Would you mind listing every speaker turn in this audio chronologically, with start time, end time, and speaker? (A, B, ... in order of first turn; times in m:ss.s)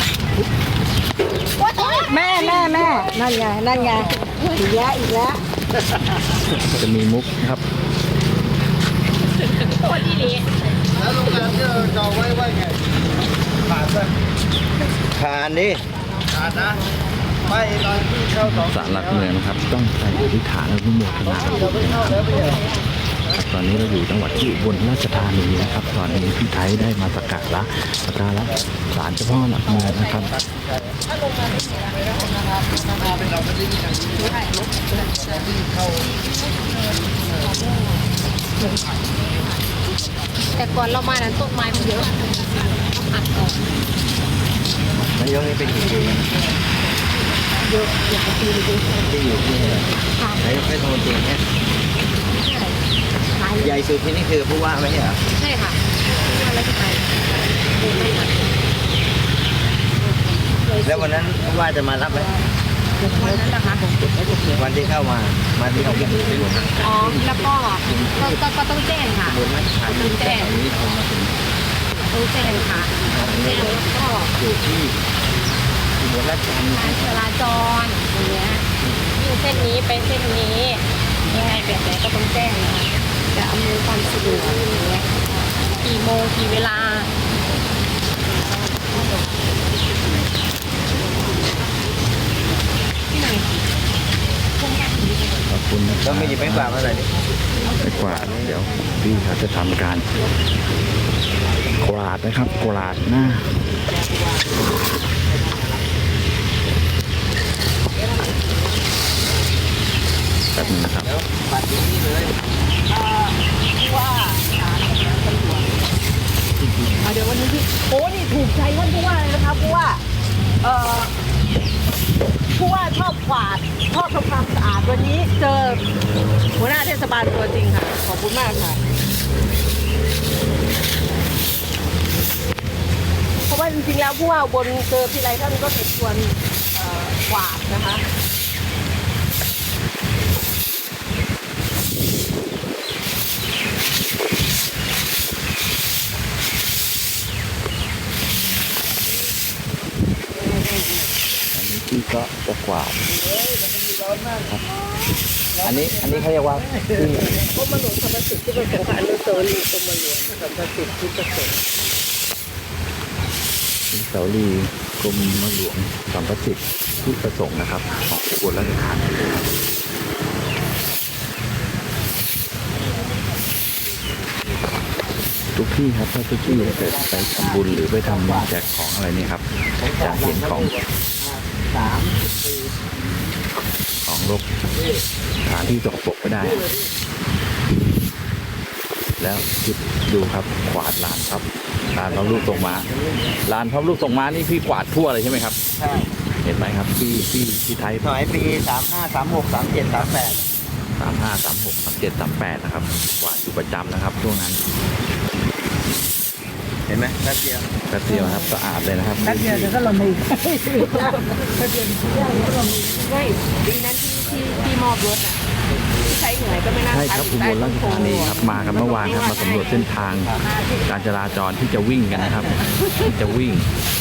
0:01.6-0:03.1 A
0:01.8-0:05.4 B
0:06.7-0:07.6 C
0:09.3-0:10.5 A
0:15.1-0:15.8 D
0:18.4-0:22.5 C
0:23.3-0:30.3 C
0:31.0-0:33.4 E
0:34.2-0:35.5 E
0:40.5-0:43.7 A
0:45.2-0:46.3 D
0:47.8-0:48.0 A
0:49.0-0:51.4 D
0:50.2-0:50.4 A
0:52.3-0:52.8 A
0:53.4-0:53.7 A
0:53.5-0:55.2 D
0:55.4-0:58.5 A
1:00.1-1:01.4 A
1:00.8-1:02.3 D
1:03.0-1:04.4 A
1:04.5-1:07.2 D
1:06.8-1:10.5 A
1:07.9-1:08.3 C
1:09.3-1:11.4 C
1:09.6-1:10.5 D
1:12.1-1:14.3 A
1:13.1-1:13.8 D
1:13.2-1:13.5 C
1:14.4-1:14.9 C
1:14.4-1:14.7 D
1:16.0-1:16.9 C
1:16.7-1:25.1 A
1:25.8-1:27.1 A
1:33.1-1:33.4 A
1:35.5-1:36.8 C
1:36.0-1:37.1 D
1:37.8-1:40.1 C
1:41.8-1:43.5 C
1:48.0-1:48.4 E
1:50.5-1:51.1 C
1:51.0-1:52.4 D
1:52.9-1:55.7 E
1:56.6-1:56.9 C
1:57.0-2:00.0 E
2:00.6-2:01.1 E
2:02.5-2:05.8 E
2:06.6-2:08.8 E
2:13.5-2:18.0 E
2:31.5-2:33.0 C
2:35.6-2:37.3 C
2:37.5-2:41.6 E
2:43.9-2:49.3 C
2:55.5-3:00.7 C
3:01.7-3:02.2 D
3:04.0-3:04.4 C
3:05.4-3:06.7 C
3:09.2-3:12.9 C
3:13.4-3:15.6 C
3:15.8-3:16.1 D
3:16.4-3:18.1 C
3:18.0-3:20.4 D
3:21.0-3:24.6 C
3:26.9-3:27.7 D
3:27.9-3:29.9 C
3:28.1-3:28.4 B
3:29.2-3:33.0 B
3:33.0-3:35.4 E
3:36.0-3:39.8 E
3:36.9-3:43.7 C